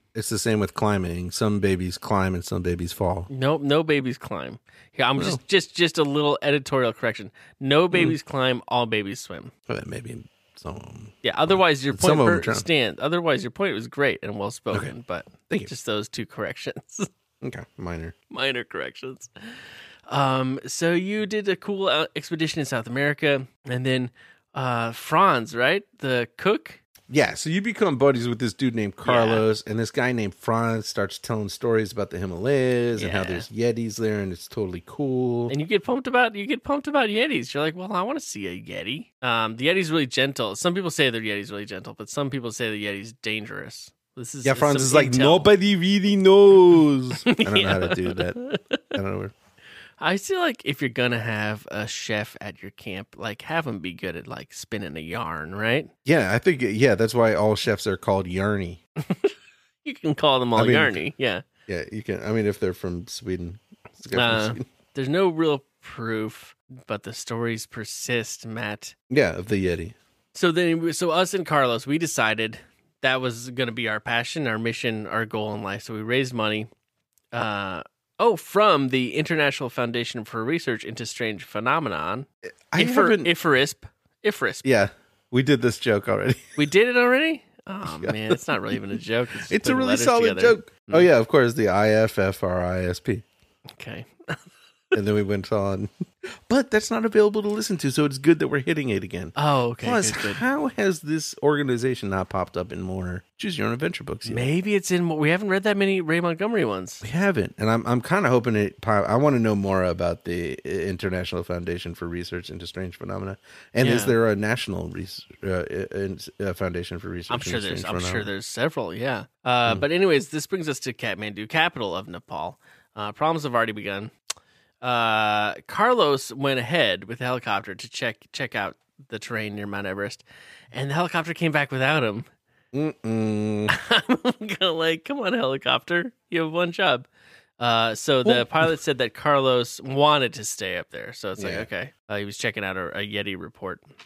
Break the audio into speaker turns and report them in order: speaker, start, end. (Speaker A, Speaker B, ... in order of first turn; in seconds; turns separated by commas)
Speaker A: 0.1-3.3, Speaker B: 3.3-9.5, Speaker A: 9.7-12.7, Speaker B: 11.2-17.1, Speaker A: 17.4-18.1, Speaker B: 18.3-19.3, Speaker B: 20.1-26.8, Speaker A: 27.1-35.5, Speaker B: 29.1-29.4, Speaker B: 33.0-33.5, Speaker B: 35.5-45.5, Speaker A: 44.4-48.4, Speaker B: 47.2-48.8, Speaker A: 48.9-49.3, Speaker B: 50.0-55.9, Speaker A: 56.0-58.8, Speaker B: 59.0-61.5, Speaker A: 60.6-61.0, Speaker A: 61.7-64.7, Speaker B: 64.1-69.0, Speaker A: 69.1-70.0, Speaker B: 70.3-76.7, Speaker B: 77.3-84.7, Speaker A: 82.7-83.3, Speaker A: 84.6-86.6, Speaker B: 86.6-91.1, Speaker A: 87.9-88.4, Speaker A: 89.5-93.2, Speaker B: 93.8-94.4, Speaker A: 94.9-95.9, Speaker A: 96.5-104.5, Speaker B: 99.4-100.4, Speaker B: 104.3-107.0, Speaker A: 107.0-118.3, Speaker B: 113.8-114.2, Speaker B: 117.3-124.1, Speaker B: 124.8-132.3, Speaker A: 132.7-133.8, Speaker B: 133.7-137.1, Speaker B: 137.6-143.8, Speaker A: 138.2-138.7, Speaker A: 141.4-141.7